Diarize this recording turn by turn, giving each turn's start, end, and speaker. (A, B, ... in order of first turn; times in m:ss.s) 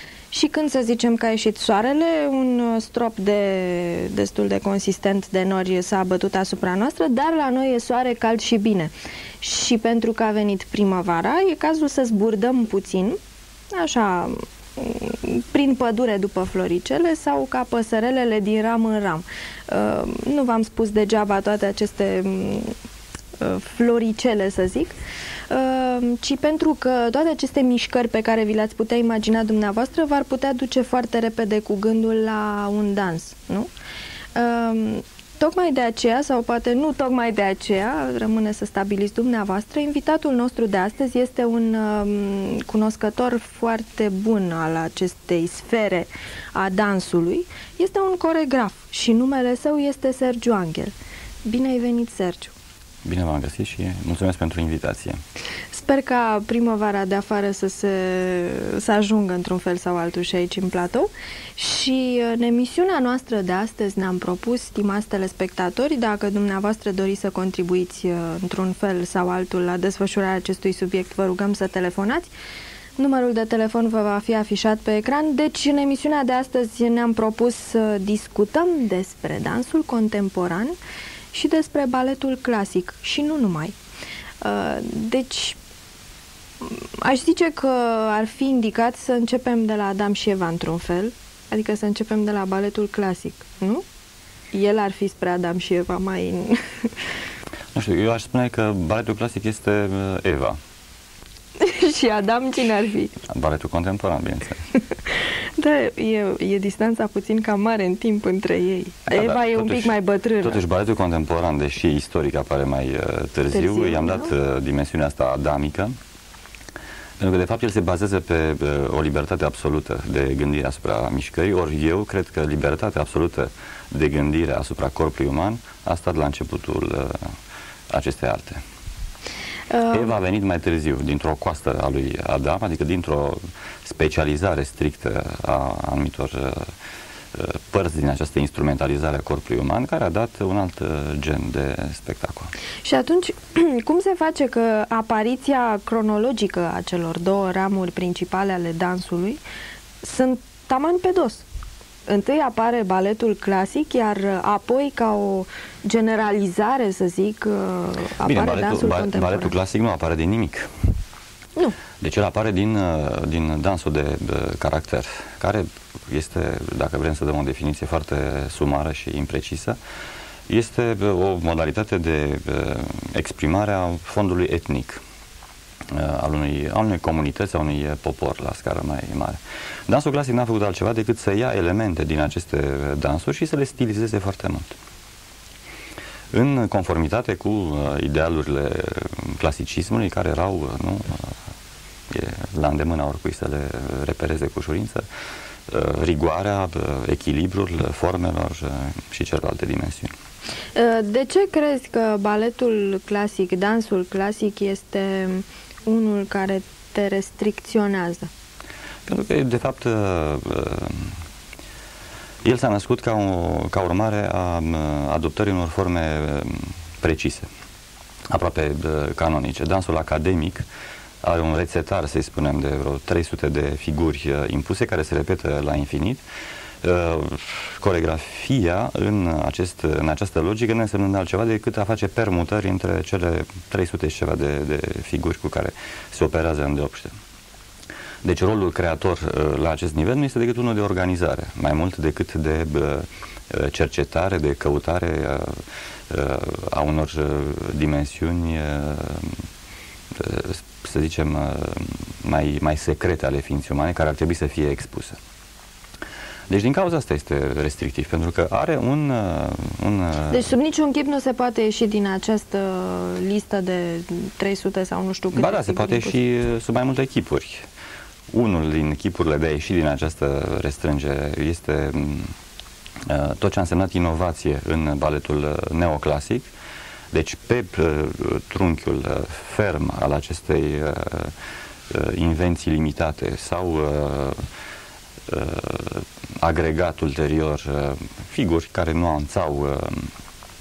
0:00.3-0:13.2 A
0:13.7-0:22.7 A
0:23.4-0:24.9 A
0:25.5-0:33.7 A
0:34.4-0:50.9 A
0:51.5-0:52.5 A
0:53.0-0:55.2 B
0:55.7-1:12.3 A
1:13.0-1:20.7 A
1:21.3-1:23.8 A
1:24.4-1:25.6 A
1:26.6-1:33.8 A
1:34.5-1:37.1 A
1:37.7-1:40.6 B
1:41.6-1:43.2 A
1:43.3-1:44.6 B
1:45.0-1:50.6 A
1:49.1-1:55.9 B
1:53.5-1:54.3 A
1:57.2-2:07.2 B
2:07.9-2:08.6 B
2:09.7-2:10.1 A
2:09.9-2:16.6 B
2:17.3-2:22.5 B
2:22.8-2:29.4 A
2:30.0-2:31.5 A
2:32.1-2:39.6 A
2:38.2-2:40.7 B
2:42.0-2:49.8 B
2:50.5-2:55.0 B
2:55.9-3:04.8 B
3:06.3-3:11.3 B
3:12.1-3:15.0 B
3:15.7-3:20.1 B
3:20.8-3:28.3 A
3:29.1-3:31.1 B
3:32.4-3:37.5 B
3:38.3-3:40.6 B
3:41.2-3:46.2 B
3:46.8-3:57.1 B
3:58.2-4:05.6 B
4:06.1-4:09.4 B
4:10.1-4:15.2 B
4:16.5-4:20.5 B
4:20.3-4:26.2 A
4:25.3-4:27.6 B
4:28.3-4:32.3 B
4:33.1-4:36.5 B
4:37.1-4:41.3 B
4:41.9-4:44.4 B
4:45.3-4:50.1 B